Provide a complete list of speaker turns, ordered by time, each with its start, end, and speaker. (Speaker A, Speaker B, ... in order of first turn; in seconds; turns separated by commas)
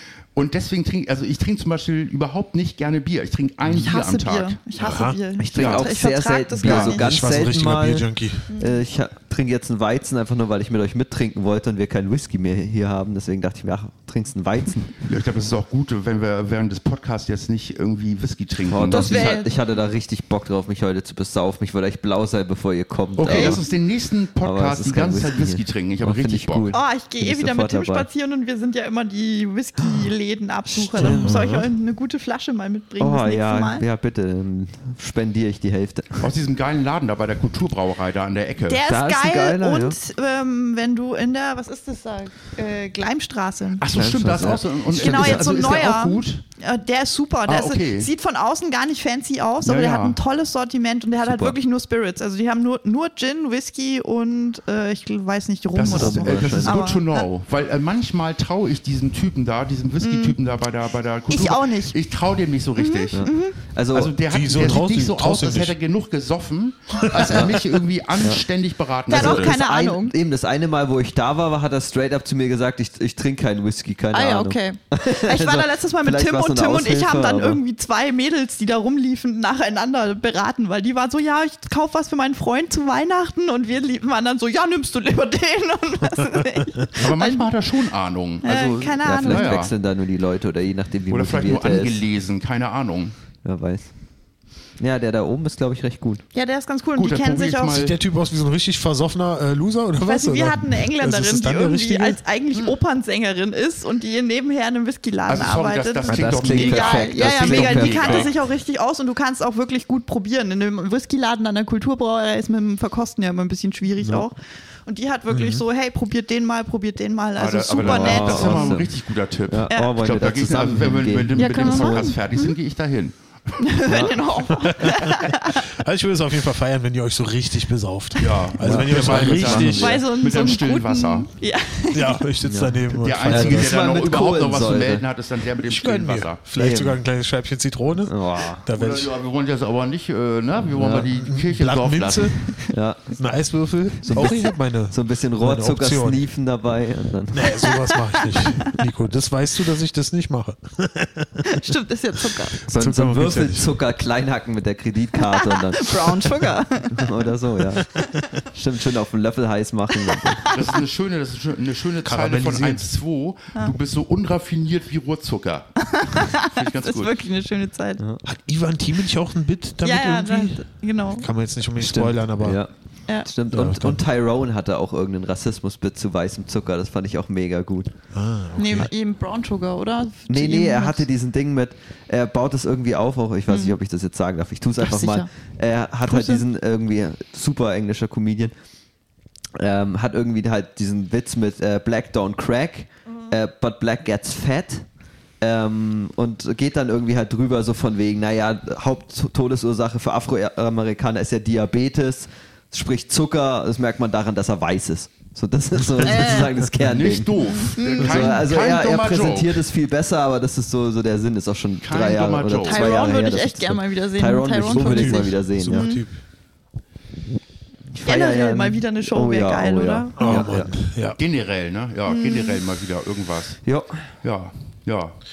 Speaker A: 0.3-4.6, Speaker B: 3.7-7.4, Speaker C: 4.8-5.2, Speaker D: 5.4-15.0, Speaker A: 5.5-5.9, Speaker C: 6.7-8.5, Speaker B: 8.5-8.8, Speaker A: 15.1-19.4, Speaker D: 18.6-23.6, Speaker B: 18.9-19.5, Speaker A: 23.2-26.7, Speaker B: 23.3-23.6, Speaker D: 24.4-28.1, Speaker B: 26.7-33.8, Speaker D: 30.7-31.5, Speaker C: 31.0-31.7, Speaker D: 33.0-36.3, Speaker A: 36.2-38.8, Speaker B: 38.7-43.9, Speaker D: 38.9-40.0, Speaker A: 43.8-46.4, Speaker D: 43.9-45.6, Speaker B: 44.9-57.3, Speaker A: 47.5-48.1, Speaker A: 49.6-50.2, Speaker D: 51.2-51.6, Speaker A: 55.8-63.3, Speaker D: 55.9-56.8, Speaker B: 60.0-60.4, Speaker B: 61.3-62.0, Speaker B: 62.8-63.6, Speaker D: 63.1-64.8, Speaker A: 63.9-69.5, Speaker C: 64.3-65.8, Speaker D: 67.3-67.6, Speaker B: 69.1-70.1, Speaker D: 69.1-77.6, Speaker B: 74.1-87.5, Speaker A: 86.9-89.7, Speaker B: 88.4-89.6, Speaker D: 88.5-92.0, Speaker A: 91.1-93.2, Speaker D: 93.4-93.9, Speaker D: 94.8-96.2, Speaker B: 96.3-97.8, Speaker A: 97.0-98.0, Speaker C: 97.7-102.2, Speaker B: 100.0-118.8, Speaker A: 105.3-108.3, Speaker D: 106.1-108.3, Speaker C: 115.3-115.6, Speaker A: 117.4-123.2, Speaker D: 117.8-118.9, Speaker D: 119.5-122.1, Speaker B: 121.4-122.5, Speaker B: 123.6-125.7, Speaker D: 123.9-124.2, Speaker C: 124.5-130.0, Speaker A: 128.2-131.3, Speaker D: 128.6-129.9, Speaker B: 129.6-132.2, Speaker C: 131.9-133.8, Speaker D: 132.4-135.1, Speaker A: 132.9-136.4, Speaker C: 135.6-139.1, Speaker D: 136.6-137.0, Speaker D: 138.1-138.7, Speaker A: 138.7-142.5, Speaker D: 140.8-141.1, Speaker C: 141.1-142.4, Speaker D: 142.7-143.2, Speaker C: 143.1-146.2, Speaker D: 144.0-147.6, Speaker C: 147.3-153.8, Speaker B: 147.6-148.8, Speaker B: 151.4-152.6, Speaker D: 152.7-156.2, Speaker B: 155.2-157.2, Speaker D: 156.9-157.9, Speaker C: 157.9-158.4, Speaker D: 158.5-160.5, Speaker B: 160.1-160.7, Speaker A: 160.5-167.2, Speaker C: 162.0-162.9, Speaker B: 165.8-168.0, Speaker C: 168.2-172.6, Speaker B: 169.8-171.3, Speaker D: 171.8-172.7, Speaker D: 173.2-177.9, Speaker C: 173.5-174.0, Speaker C: 178.1-178.9, Speaker B: 178.6-181.1, Speaker D: 180.3-188.5, Speaker B: 183.5-183.8, Speaker B: 184.8-185.3, Speaker B: 186.1-186.4, Speaker D: 189.6-194.9, Speaker D: 195.4-207.3, Speaker B: 206.0-206.5, Speaker A: 206.8-209.6, Speaker B: 207.6-208.4, Speaker D: 208.0-215.9, Speaker A: 211.8-213.0, Speaker B: 212.6-216.0, Speaker C: 214.7-216.1, Speaker D: 217.9-220.7, Speaker B: 218.1-220.5, Speaker C: 220.2-221.2, Speaker A: 221.2-223.6, Speaker B: 222.1-222.6, Speaker D: 223.7-224.0, Speaker A: 224.2-225.2